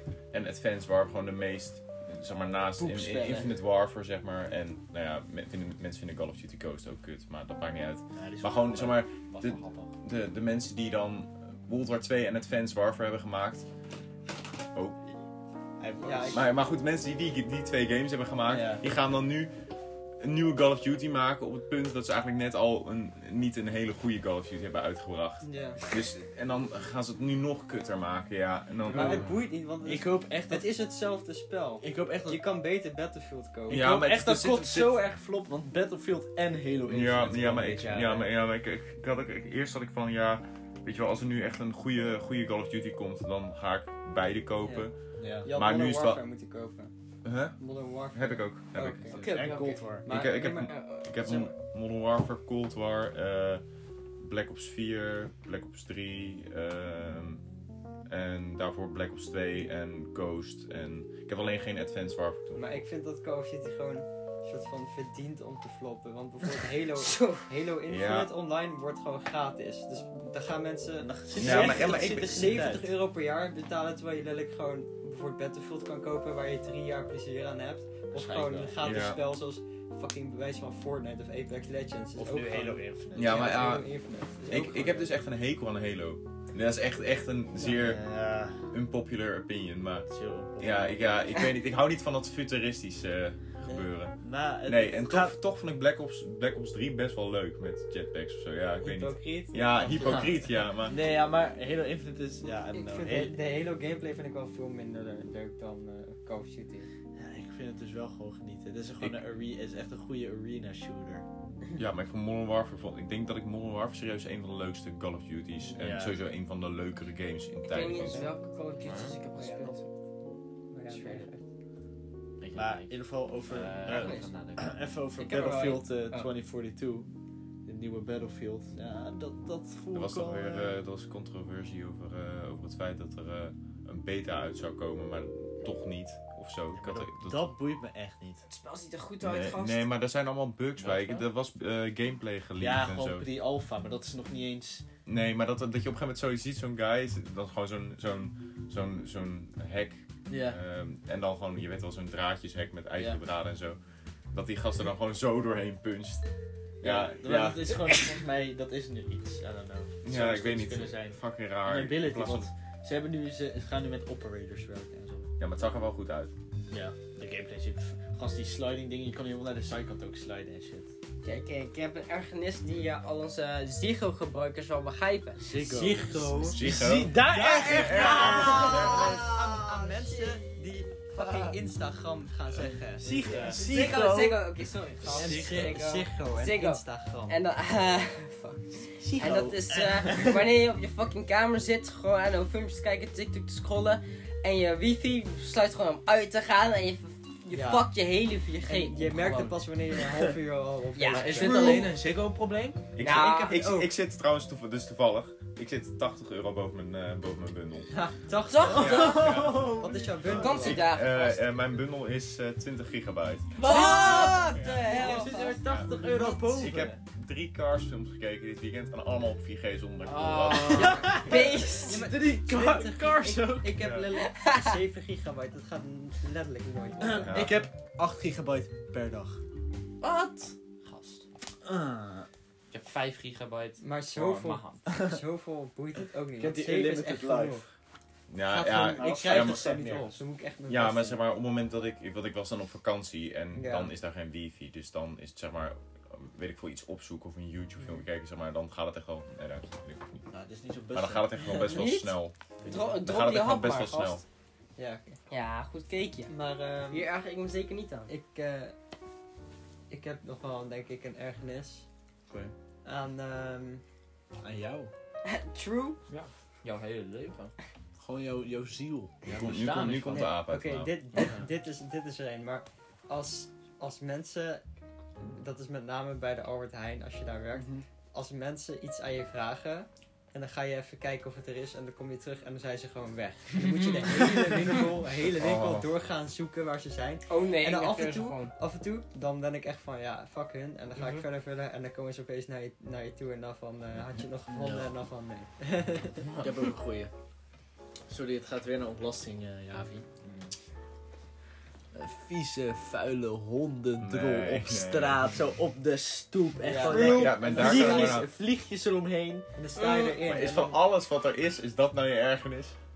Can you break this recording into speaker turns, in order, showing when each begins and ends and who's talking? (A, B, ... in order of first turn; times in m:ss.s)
0:00.3-0:13.6 A
0:02.8-0:03.6 B
0:08.1-0:09.9 B
0:15.8-0:16.5 B
0:16.0-0:16.5 C
0:16.3-0:19.5 A
0:18.5-0:18.8 B
0:20.2-0:29.4 A
0:25.4-0:25.8 C
0:28.8-0:33.9 C
0:28.9-0:30.7 B
0:31.8-0:32.4 B
0:33.7-0:35.0 A
0:33.7-0:38.3 B
0:36.8-0:46.2 A
0:44.6-0:44.9 C
0:45.2-0:45.5 B
0:45.4-0:46.9 C
0:47.2-0:47.6 A
0:47.6-0:49.4 C
0:48.1-0:49.2 A
0:49.1-0:49.8 D
0:49.1-0:50.1 B
0:50.0-0:53.6 A
0:50.0-0:50.8 C
0:50.6-0:51.5 D
0:54.2-0:57.4 A
0:58.1-1:02.8 A
1:02.5-1:25.1 C
1:07.0-1:07.4 D
1:07.9-1:08.3 A
1:11.0-1:12.9 B
1:11.3-1:12.6 A
1:18.1-1:18.9 B
1:18.8-1:19.2 A
1:22.2-1:23.7 B
1:23.1-1:23.9 A
1:24.5-1:28.0 A
1:27.6-1:28.7 B
1:28.7-1:41.0 A
1:30.1-1:31.4 B
1:34.2-1:35.3 B
1:38.8-1:40.6 C
1:40.8-1:43.4 B
1:42.7-1:46.9 C
1:47.2-1:51.2 B
1:51.8-1:58.3 A
1:55.7-1:56.2 B
1:57.7-1:59.9 D
1:58.8-1:59.2 E
1:59.4-1:59.7 C
2:00.7-2:01.4 C
2:02.4-2:04.8 E
2:02.5-2:07.1 B
2:03.9-2:04.3 D
2:05.2-2:06.3 D
2:07.6-2:10.7 B
2:09.9-2:17.5 A
2:16.7-2:18.4 B
2:18.5-2:19.8 D
2:19.2-2:23.3 A
2:22.6-2:24.8 B
2:25.0-2:33.8 A
2:30.3-2:30.6 B
2:34.3-2:36.2 A
2:36.8-2:38.1 A
2:36.8-2:45.3 B
2:40.0-2:42.5 A
2:45.4-2:46.3 A
2:46.7-2:50.9 B
2:51.2-2:55.5 D
2:55.4-2:59.0 B
2:55.7-2:56.6 C
2:56.4-2:59.1 A
2:57.2-3:03.5 C
2:57.9-3:00.4 D
3:01.2-3:01.5 B
3:02.5-3:04.4 B
3:03.0-3:03.6 E
3:03.5-3:19.2 D
3:05.0-3:05.8 B
3:05.0-3:07.4 C
3:05.1-3:05.7 E
3:09.0-3:10.4 B
3:17.5-3:17.9 C
3:18.6-3:21.9 C
3:19.2-3:19.5 E
3:20.9-3:21.9 D
3:21.1-3:22.9 E
3:22.9-3:27.9 A
3:23.0-3:23.6 D
3:23.0-3:23.9 C
3:27.9-3:30.9 C
3:28.5-3:29.3 D
3:28.7-3:33.6 A
3:28.7-3:30.7 B
3:30.3-3:31.4 D
3:33.6-3:37.0 B
3:33.6-3:35.6 D
3:33.6-3:34.4 E
3:33.7-3:34.5 C
3:34.5-3:35.0 A
3:35.0-3:36.9 C
3:35.6-3:36.0 A
3:36.5-3:41.1 A
3:40.0-3:41.1 E
3:40.7-3:43.8 B
3:40.8-3:42.1 D
3:40.8-3:47.5 C
3:43.8-3:44.1 A
3:44.1-3:44.8 D
3:47.0-3:49.4 B
3:47.1-3:47.6 A
3:50.0-3:51.2 E
3:51.6-3:52.3 B
3:52.7-3:54.9 E
3:53.8-3:57.7 C
3:54.9-3:55.2 B
3:56.4-3:57.6 B
3:58.3-3:59.9 A
3:58.4-4:01.2 C
3:58.9-4:00.2 B
4:00.7-4:10.3 A
4:03.5-4:03.9 C
4:10.3-4:11.7 B
4:10.9-4:14.2 A
4:11.6-4:14.2 D
4:14.8-4:15.2 C
4:15.3-4:16.3 D
4:16.3-4:17.0 C
4:16.9-4:18.1 D
4:18.1-4:18.7 C
4:19.9-4:21.8 C
4:22.8-4:23.8 C
4:24.4-4:24.9 B
4:25.2-4:26.0 D
4:26.1-4:27.5 E
4:28.0-4:29.5 B
4:29.2-4:30.3 E
4:29.3-4:31.2 A
4:30.1-4:34.6 C
4:31.2-4:31.4 E
4:35.2-4:56.3 C
4:37.5-4:37.8 B
4:43.6-4:44.8 E
4:45.3-4:45.9 A
4:47.3-4:48.5 D
4:54.5-4:54.9 B
4:56.2-4:56.5 E
4:56.4-4:57.1 B
4:58.1-5:00.0 B
5:00.2-5:00.5 E
5:01.9-5:09.5 B
5:04.0-5:05.2 A
5:06.6-5:08.2 C
5:06.8-5:07.4 D
5:06.9-5:08.3 A
5:09.5-5:10.8 C
5:09.8-5:10.2 D
5:10.2-5:12.7 A